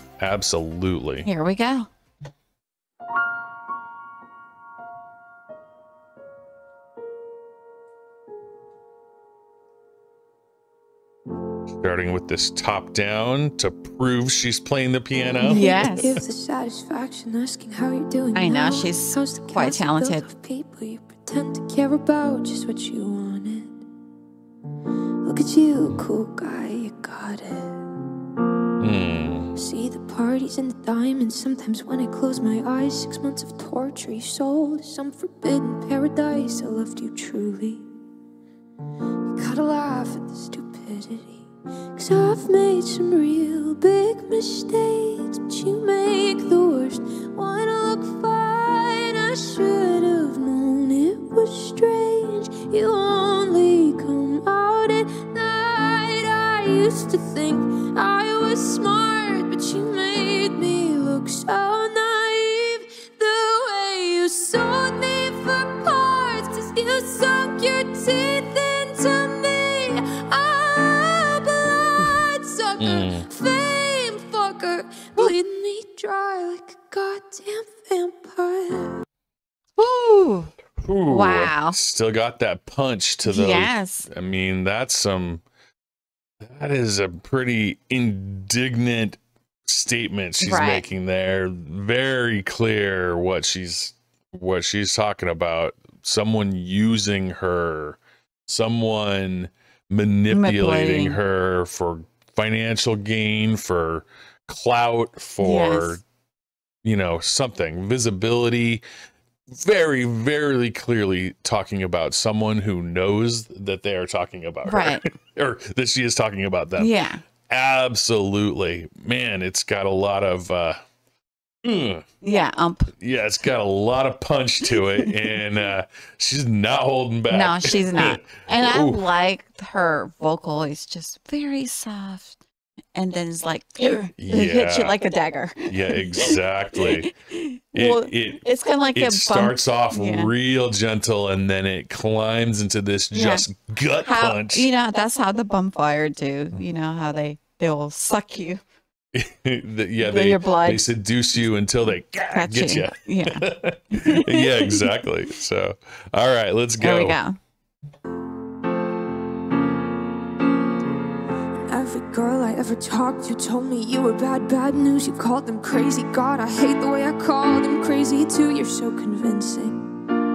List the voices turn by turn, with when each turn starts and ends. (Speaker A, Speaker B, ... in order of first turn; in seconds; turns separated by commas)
Speaker A: 0.2-1.3, Speaker B: 1.2-1.9, Speaker A: 11.8-15.6, Speaker C: 15.4-23.8, Speaker B: 15.4-16.2, Speaker B: 18.3-20.2, Speaker C: 25.2-27.8, Speaker A: 28.8-29.5, Speaker C: 29.5-37.9, Speaker C: 39.3-79.0, Speaker A: 72.8-73.3, Speaker B: 79.8-80.5, Speaker A: 80.8-85.4, Speaker B: 81.1-81.8, Speaker B: 83.2-84.1, Speaker A: 86.4-106.0, Speaker B: 90.4-90.8, Speaker B: 100.3-101.2, Speaker B: 105.4-106.0, Speaker A: 106.8-108.8, Speaker A: 109.5-116.9, Speaker B: 114.7-115.0, Speaker B: 116.8-117.2, Speaker A: 117.5-120.8, Speaker A: 121.6-122.0, Speaker B: 122.2-122.9, Speaker A: 123.0-129.0, Speaker B: 127.3-132.4, Speaker B: 132.9-140.3, Speaker A: 134.2-134.9, Speaker A: 135.7-137.1, Speaker A: 137.7-138.4, Speaker A: 138.9-144.7, Speaker B: 143.1-143.4, Speaker B: 144.0-148.6, Speaker A: 149.1-157.2, Speaker B: 150.0-150.8, Speaker B: 152.3-154.9, Speaker B: 156.8-157.4, Speaker C: 161.6-169.9